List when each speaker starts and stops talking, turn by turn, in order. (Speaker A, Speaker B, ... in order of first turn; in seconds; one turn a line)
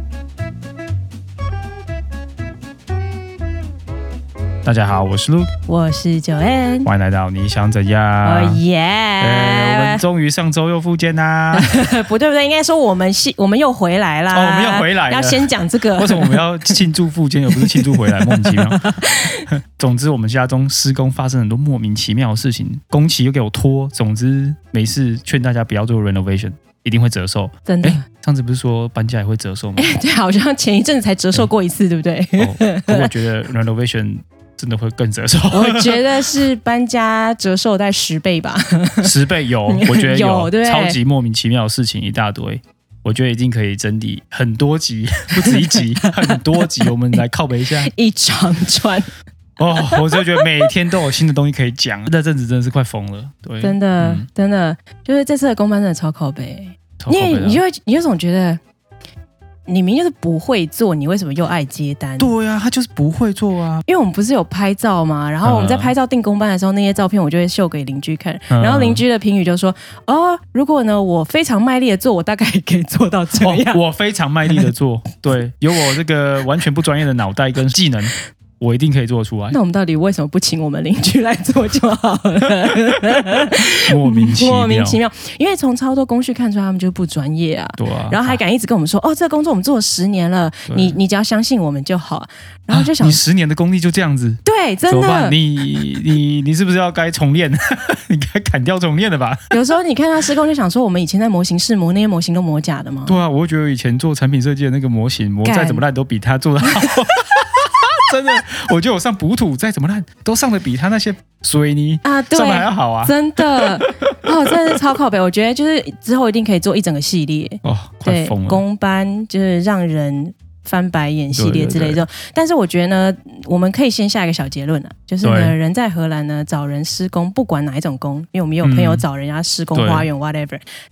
Speaker A: 4.6-5.5
Speaker B: 5.7-6.9
Speaker A: 6.8-8.6
Speaker B: 8.2-10.0
Speaker A: 9.2-11.8
Speaker B: 11.5-16.8
Speaker A: 14.3-18.9
Speaker B: 17.6-19.4
Speaker A: 19.4-29.9
Speaker B: 27.7-28.0
Speaker B: 29.8-33.1
Speaker A: 32.4-36.1
Speaker B: 35.5-39.1
Speaker A: 39.0-47.9
Speaker B: 39.7-41.0
Speaker B: 45.5-46.1
Speaker B: 47.9-49.1
Speaker A: 49.6-54.3
Speaker B: 49.8-50.5
Speaker B: 53.6-58.6
Speaker A: 57.0-57.6
Speaker B: 59.7-62.3
Speaker A: 62.2-63.8
Speaker B: 63.9-73.8
Speaker A: 65.4-65.9
Speaker A: 68.5-69.0
Speaker A: 73.4-79.6
Speaker B: 79.5-93.2
Speaker A: 83.9-85.0
Speaker A: 87.8-88.4
Speaker A: 90.7-91.0
Speaker A: 92.7-99.5
Speaker B: 94.5-95.4
Speaker B: 99.5-103.2
Speaker A: 103.1-114.1
Speaker B: 105.5-105.8
Speaker B: 112.0-130.6
Speaker A: 117.6-118.6
Speaker A: 121.3-122.0
Speaker A: 125.2-125.6
Speaker A: 128.6-129.1
Speaker A: 129.8-130.1